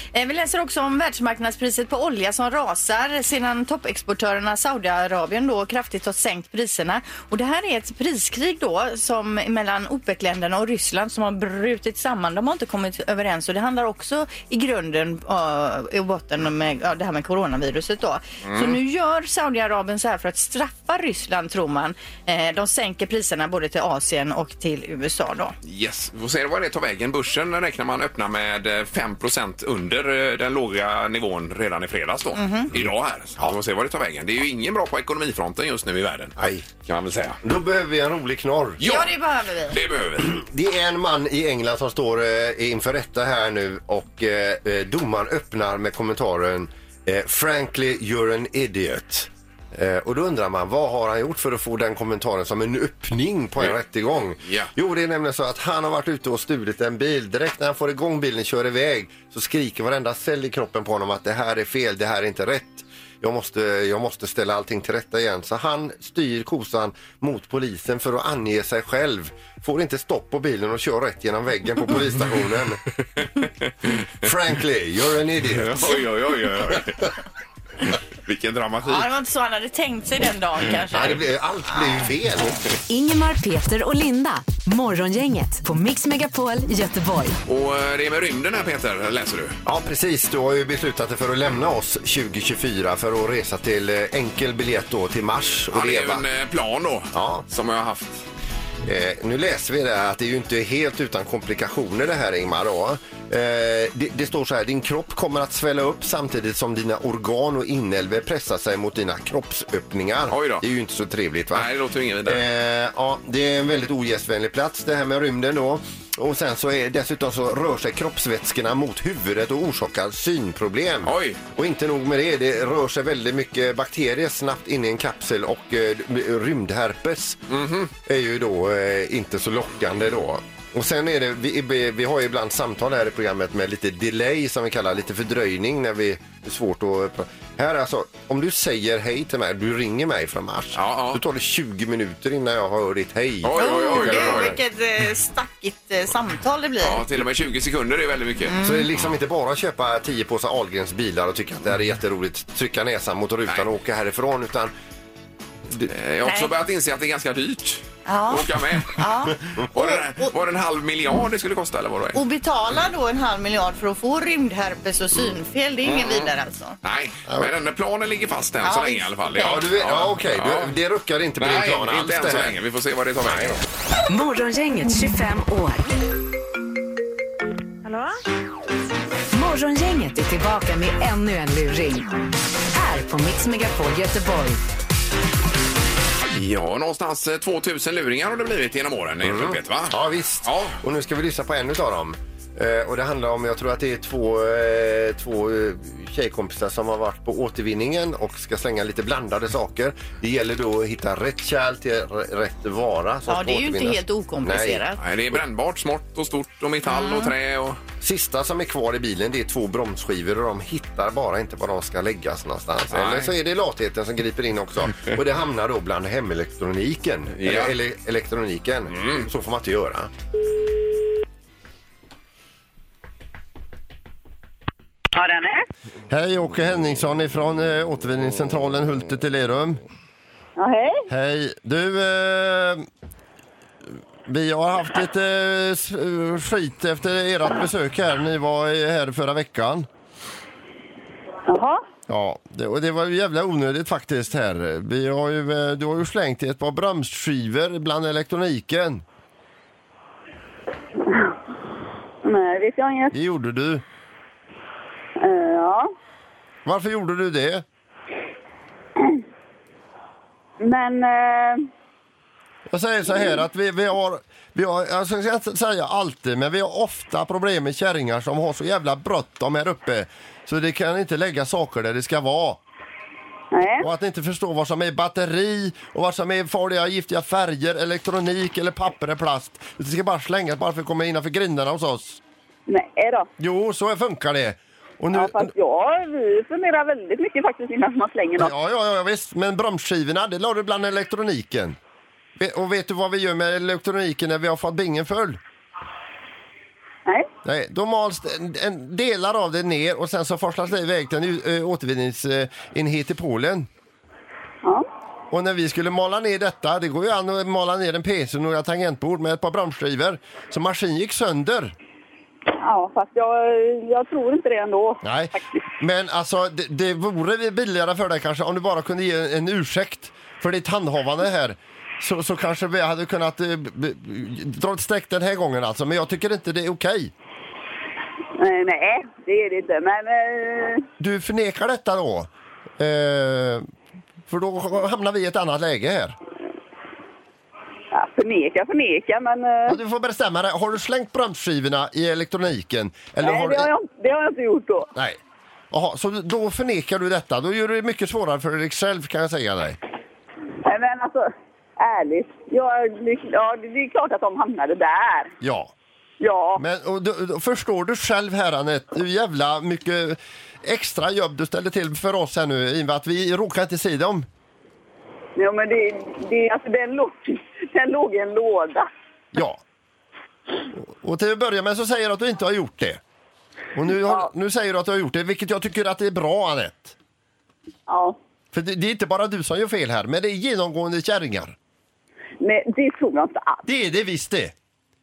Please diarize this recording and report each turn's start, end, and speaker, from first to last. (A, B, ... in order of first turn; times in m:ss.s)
0:00.1-0:25.6 A
0:18.4-0:18.8 B
0:25.6-0:36.4 B
0:32.4-0:32.7 A
0:36.4-0:36.7 C
0:36.9-0:37.4 B
0:37.4-0:38.8 C
0:38.8-0:39.2 B
0:38.8-0:39.8 A
0:39.7-0:40.4 B
0:40.2-1:12.8 C
0:54.4-0:54.7 B
1:13.4-1:14.0 B
1:14.2-1:16.1 C
1:15.5-1:17.1 B
1:18.2-1:19.1 B
1:18.8-1:21.2 A
1:20.9-1:22.6 C
1:22.9-1:27.4 D
1:27.5-1:29.6 B
1:29.7-1:36.2 C
1:35.7-1:38.2 B
1:37.1-1:37.4 C
1:38.8-1:51.7 C
1:50.3-1:50.6 B
1:51.5-1:52.4 B
1:52.2-2:07.4 C
2:01.0-2:01.4 B
2:07.5-2:07.9 B
2:08.0-2:24.6 C
2:20.8-2:21.2 B
2:23.4-2:24.6 B
2:23.6-2:27.0 A
2:26.8-2:28.6 B
2:28.5-2:28.9 A
2:28.6-2:34.7 C
2:35.9-2:39.0 B
2:36.2-2:36.5 A
2:38.1-2:40.3 A
2:39.6-2:42.2 B
2:42.2-2:46.8 A
2:45.8-2:46.3 B
2:46.8-2:50.8 B
2:48.6-2:49.5 A
2:49.4-2:52.6 C
2:51.4-2:53.6 B
2:53.2-2:53.6 C
2:54.1-2:55.8 D
2:59.3-3:02.1 D
3:02.7-3:04.6 D
3:06.3-3:10.8 B
3:09.2-3:24.8 C
3:23.3-3:25.0 A
3:25.0-3:27.8 B
3:26.9-3:27.3 A
3:28.0-3:40.1 C
3:32.9-3:33.3 B
3:37.4-3:37.8 B
3:38.9-3:39.3 B
3:45.2-3:45.6 E
3:46.1-3:49.8 C
3:50.6-3:51.1 E
3:51.1-3:52.9 C
3:54.3-3:59.9 C
4:01.5-4:01.8 E
4:02.1-4:09.0 C
4:11.1-4:11.4 E
4:12.2-4:13.1 E
4:13.1-4:13.8 C
4:15.2-4:15.9 E
4:16.6-4:17.6 C
4:20.6-4:21.7 E
4:22.7-4:32.6 C
4:33.5-4:33.9 E
4:33.8-4:42.2 C
4:42.7-4:43.3 E
4:43.4-4:45.5 C
4:45.1-4:48.5 E
4:48.4-4:51.8 C
4:52.4-4:55.4 C
4:57.4-5:03.7 C
5:05.3-5:11.8 C
5:12.6-5:15.0 E
5:15.0-5:27.1 C
5:28.4-5:30.9 E
5:31.0-5:33.7 C
5:34.3-5:36.2 C
5:37.9-5:39.8 E
5:39.7-5:43.7 C
5:43.2-5:44.9 E
5:45.7-5:49.8 C
5:50.6-5:55.3 E
5:55.4-5:55.7 C
5:56.2-5:56.6 E
5:56.6-6:04.3 C
6:05.4-6:08.9 E
6:09.4-6:09.6 C
6:10.7-6:13.0 C
6:13.7-6:17.0 C
6:17.9-6:18.2 E
6:18.5-6:21.6 C
6:22.4-6:23.6 E
6:23.6-6:24.5 C